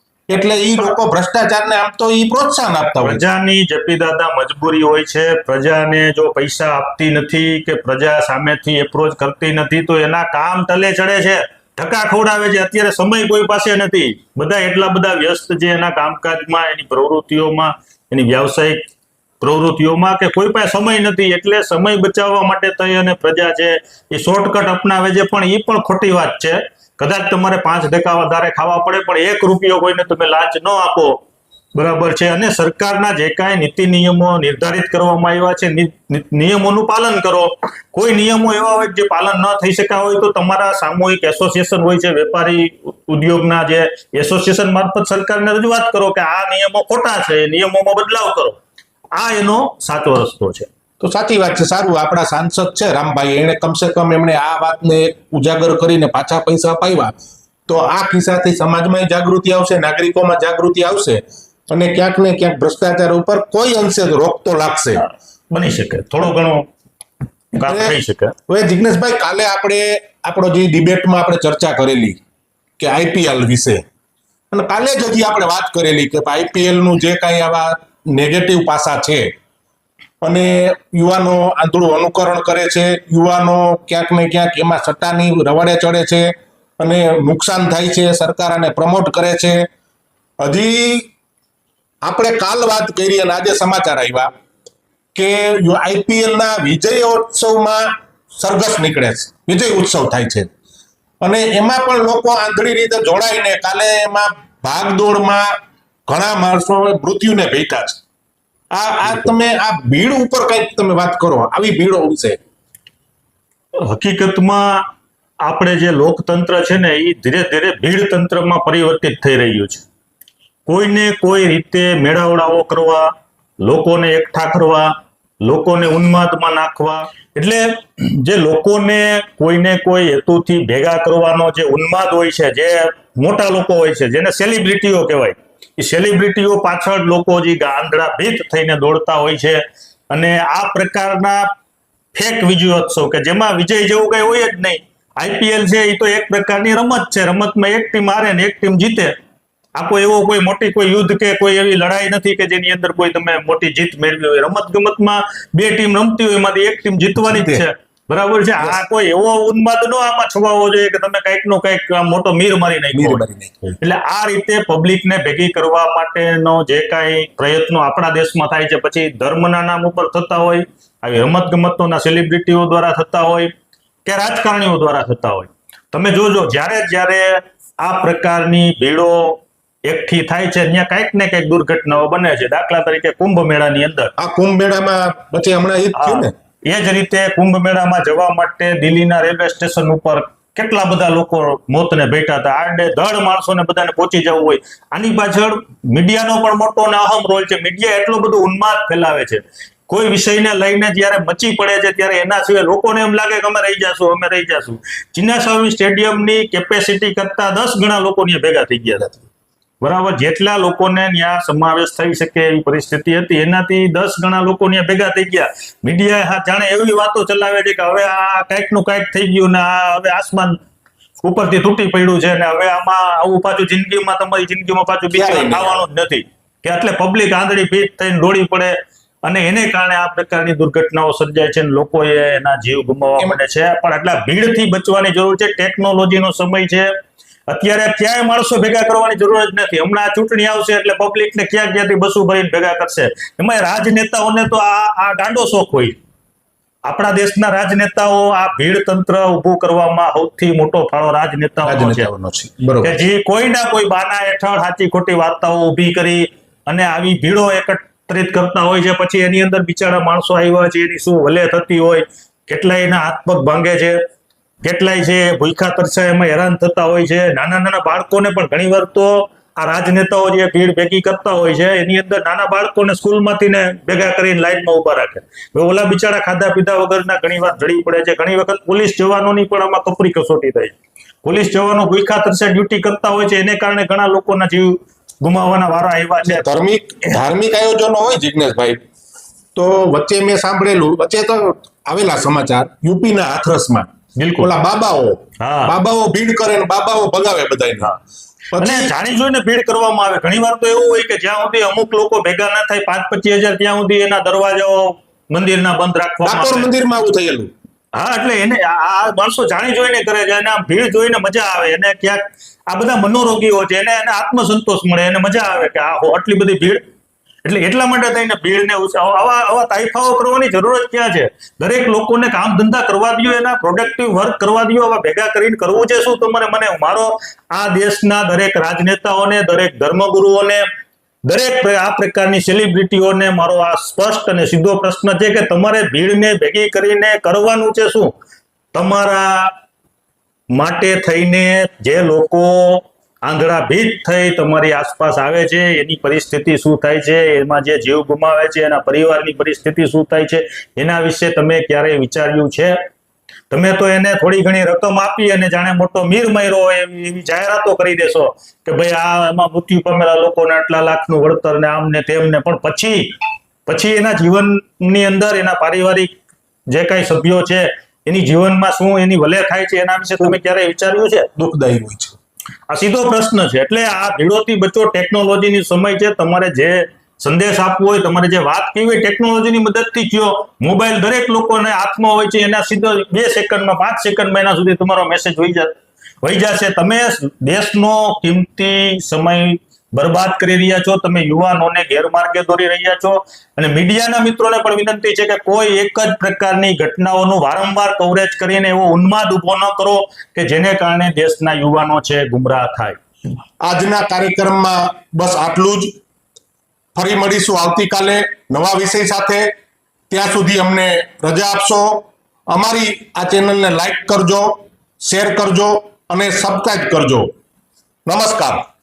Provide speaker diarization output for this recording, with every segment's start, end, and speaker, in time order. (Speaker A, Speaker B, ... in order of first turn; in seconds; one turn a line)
Speaker A: 0.3-3.2
Speaker B: 3.0-18.8
Speaker B: 19.4-31.2
Speaker B: 31.7-48.6
Speaker B: 49.1-50.7
Speaker A: 51.0-57.1
Speaker A: 57.7-65.0
Speaker B: 65.0-66.7
Speaker B: 67.5-68.3
Speaker A: 67.7-68.0
Speaker A: 68.5-72.2
Speaker A: 72.8-73.8
Speaker A: 74.5-79.3
Speaker A: 80.2-89.7
Speaker A: 90.4-91.1
Speaker A: 92.0-94.3
Speaker A: 95.1-100.5
Speaker A: 101.2-105.5
Speaker A: 106.1-108.0
Speaker A: 108.7-112.4
Speaker B: 109.0-109.3
Speaker B: 113.8-114.8
Speaker B: 115.4-119.8
Speaker B: 120.7-123.1
Speaker B: 123.6-141.5
Speaker B: 142.1-149.1
Speaker B: 149.7-163.2
Speaker A: 157.2-157.6
Speaker A: 162.9-163.8
Speaker B: 163.8-173.5
Speaker B: 174.0-184.1
Speaker A: 184.2-186.3
Speaker B: 185.9-209.3
Speaker B: 209.8-220.6
Speaker B: 221.2-236.9
Speaker A: 225.1-225.8
Speaker B: 237.5-246.0
Speaker B: 246.8-252.1
Speaker A: 251.6-253.0
Speaker B: 252.8-264.0
Speaker B: 264.6-286.5
Speaker A: 286.2-288.8
Speaker A: 289.5-293.9
Speaker B: 294.2-294.5
Speaker A: 294.4-297.9
Speaker B: 295.4-295.7
Speaker A: 298.5-298.9
Speaker B: 298.6-306.7
Speaker A: 306.2-307.5
Speaker B: 307.9-316.8
Speaker B: 317.4-330.6
Speaker B: 331.2-338.1
Speaker B: 338.7-339.5
Speaker B: 340.5-352.8
Speaker B: 353.5-363.1
Speaker B: 363.6-366.1
Speaker B: 366.7-371.3
Speaker A: 371.4-372.2
Speaker B: 372.7-403.0
Speaker A: 403.6-405.9
Speaker A: 406.9-409.5
Speaker A: 410.1-417.3
Speaker A: 418.1-418.6